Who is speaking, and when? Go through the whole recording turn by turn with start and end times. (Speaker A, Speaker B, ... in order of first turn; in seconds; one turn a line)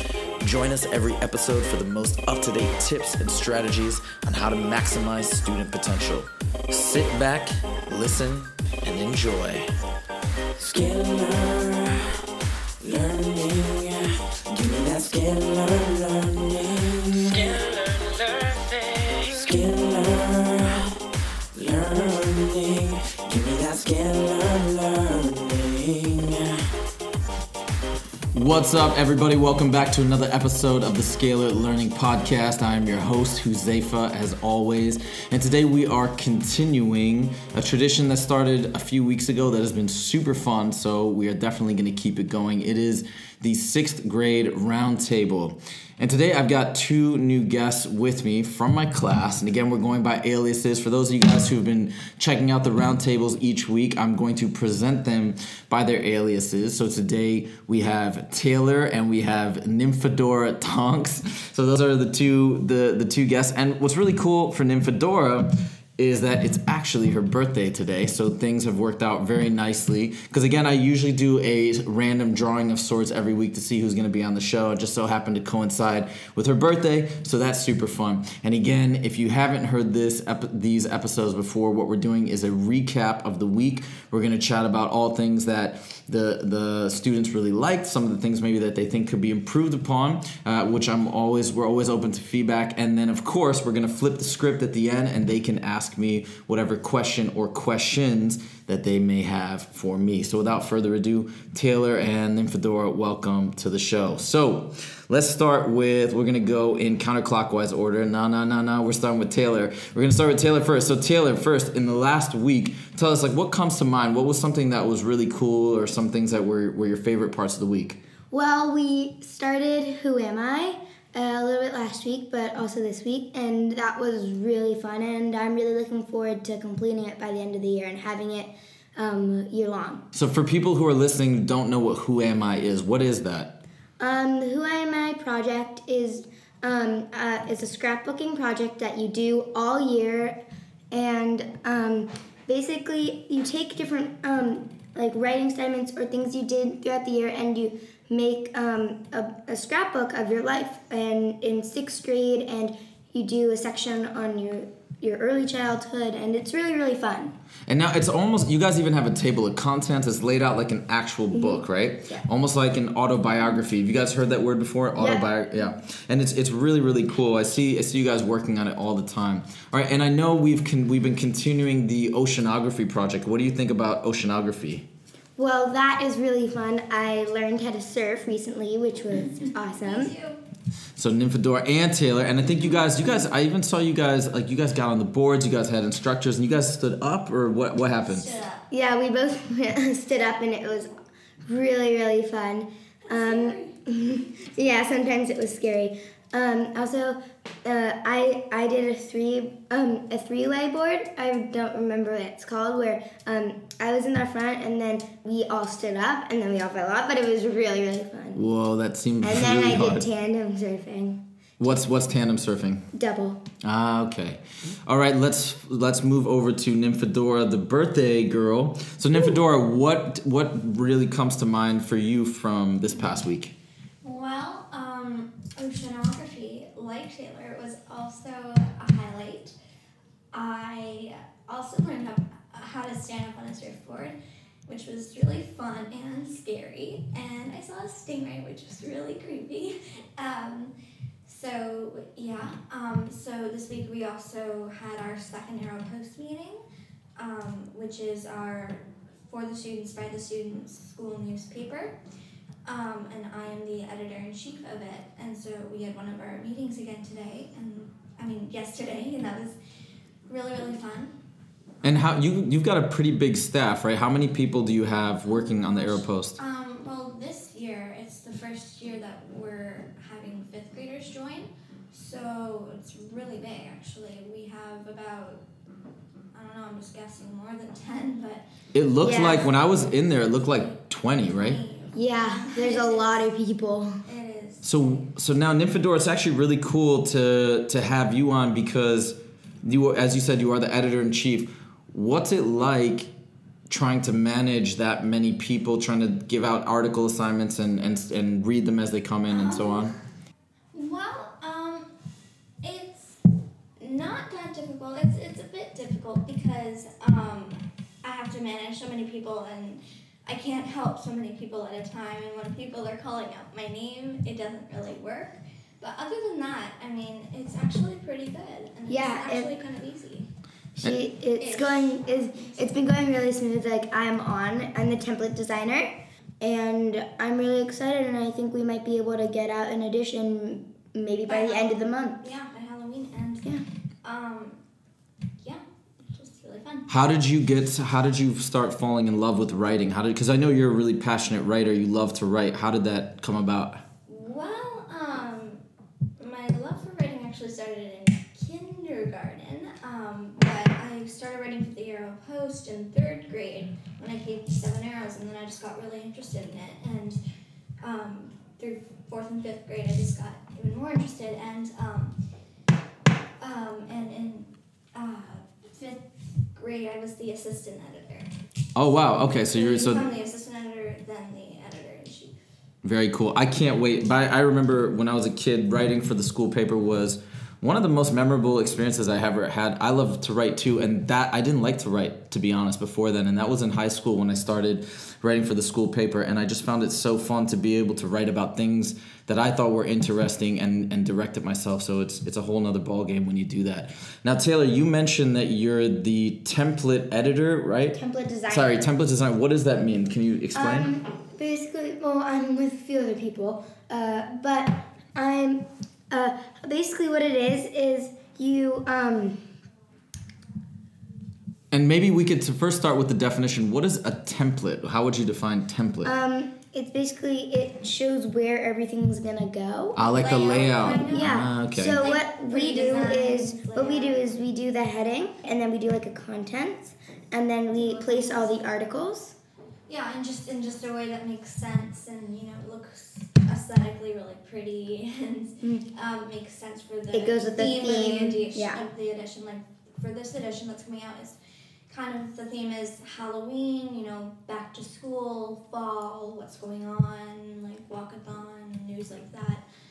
Speaker A: 0.4-9.7
Speaker B: 10.6-12.2
Speaker B: 12.8-21.0
Speaker B: 21.5-26.7
Speaker A: 28.3-118.0
Speaker C: 118.3-130.0
Speaker A: 130.1-133.5
Speaker C: 134.0-140.4
Speaker C: 140.9-157.3
Speaker A: 157.7-174.8
Speaker C: 161.3-162.2
Speaker C: 165.0-165.3
Speaker C: 175.4-180.1
Speaker D: 179.3-180.4
Speaker A: 180.9-188.3
Speaker D: 188.0-188.7
Speaker C: 188.7-190.9
Speaker C: 191.4-208.4
Speaker D: 193.0-193.7
Speaker A: 208.3-210.0
Speaker C: 209.2-211.2
Speaker A: 211.6-212.9
Speaker C: 212.9-213.4
Speaker A: 213.6-223.5
Speaker D: 224.0-229.5
Speaker D: 230.3-240.7
Speaker D: 241.2-246.6
Speaker D: 247.2-251.9
Speaker D: 252.6-259.6
Speaker D: 260.3-261.1
Speaker A: 261.8-266.4
Speaker D: 265.2-275.4
Speaker D: 276.3-278.4
Speaker A: 278.7-281.6
Speaker C: 279.0-279.5
Speaker D: 279.3-280.7
Speaker D: 281.2-283.3
Speaker C: 281.9-283.9
Speaker D: 284.0-284.8
Speaker A: 284.6-293.1
Speaker A: 293.7-299.9
Speaker D: 299.3-299.9
Speaker D: 300.7-301.9
Speaker D: 302.6-303.2
Speaker D: 303.8-320.3
Speaker C: 318.9-319.5
Speaker C: 320.8-332.2
Speaker D: 321.4-322.8
Speaker D: 331.3-334.6
Speaker D: 335.4-336.9
Speaker A: 336.9-343.8
Speaker D: 344.1-345.6
Speaker D: 346.2-357.2
Speaker D: 357.8-362.2
Speaker D: 363.4-366.0
Speaker D: 366.5-368.3
Speaker A: 368.7-370.1
Speaker D: 369.5-372.3
Speaker A: 372.8-398.0
Speaker C: 397.9-398.8
Speaker A: 398.5-400.9
Speaker C: 400.5-409.4
Speaker A: 411.7-416.1
Speaker C: 416.0-420.0
Speaker A: 419.9-422.1
Speaker D: 420.1-424.2
Speaker C: 420.8-429.3
Speaker D: 427.7-428.7
Speaker D: 429.9-441.4
Speaker C: 437.1-438.8
Speaker D: 441.9-449.6